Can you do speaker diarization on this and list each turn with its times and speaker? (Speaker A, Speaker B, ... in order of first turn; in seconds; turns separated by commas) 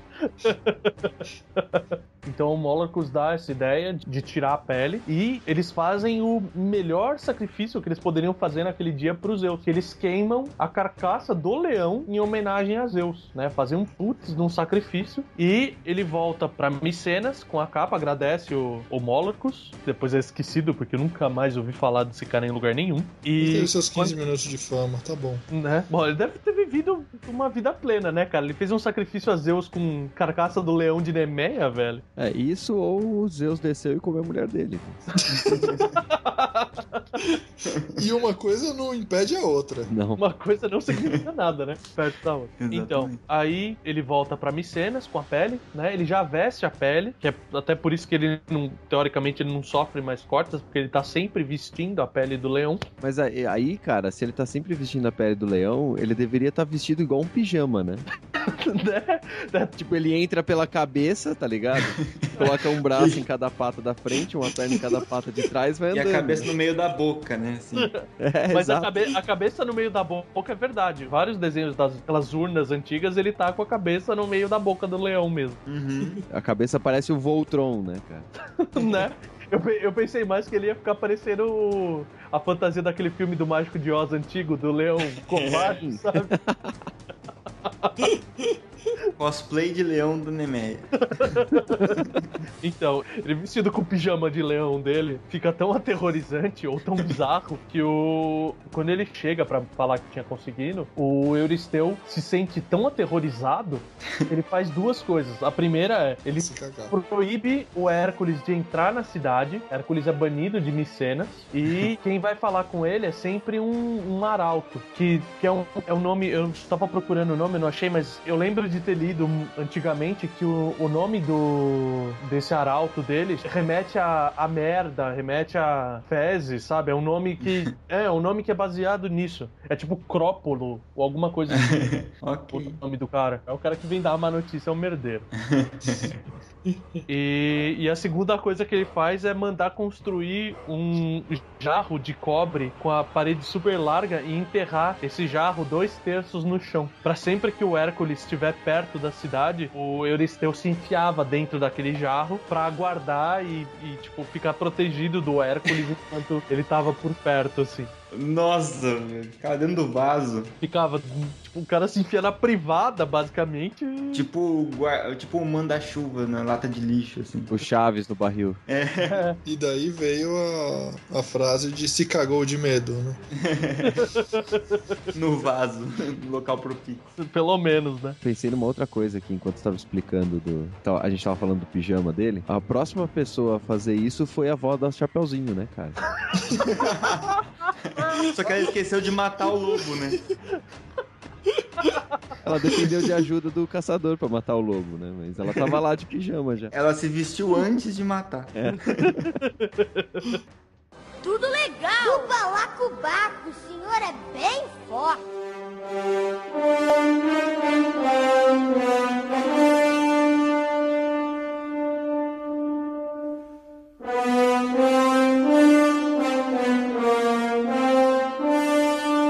Speaker A: 0.2-24.1, Speaker B: 23.4-25.4, Speaker A: 25.5-32.0, Speaker C: 32.2-35.1, Speaker B: 35.3-35.8, Speaker D: 35.5-35.9, Speaker A: 35.9-37.2, Speaker B: 38.0-39.9, Speaker C: 39.9-40.2, Speaker A: 40.2-52.9, Speaker D: 42.6-43.2, Speaker C: 53.0-58.0, Speaker A: 58.4-59.7, Speaker C: 59.8-66.5, Speaker D: 65.9-67.9, Speaker A: 67.8-75.6, Speaker C: 68.2-68.9, Speaker D: 75.7-76.2, Speaker C: 76.3-78.3, Speaker A: 78.6-86.3, Speaker D: 85.3-85.8, Speaker C: 85.8-86.7, Speaker A: 87.8-88.1, Speaker D: 89.2-91.5, Speaker A: 91.1-91.9, Speaker A: 92.6-131.8, Speaker B: 106.4-107.0, Speaker D: 131.5-132.8, Speaker A: 132.5-135.3, Speaker D: 135.4-136.2, Speaker B: 136.7-137.1, Speaker A: 137.1-157.9, Speaker D: 158.1-160.5, Speaker A: 160.6-164.3, Speaker D: 164.1-167.6, Speaker C: 167.5-168.6, Speaker D: 168.7-169.2, Speaker A: 169.0-169.4, Speaker B: 169.4-173.2, Speaker D: 173.4-174.1, Speaker A: 173.9-174.8, Speaker D: 175.1-177.1, Speaker A: 177.2-178.2, Speaker C: 178.2-186.0, Speaker D: 186.6-190.2, Speaker A: 191.8-192.2, Speaker C: 192.4-196.7, Speaker D: 196.7-199.1, Speaker C: 198.6-199.3, Speaker E: 201.2-205.2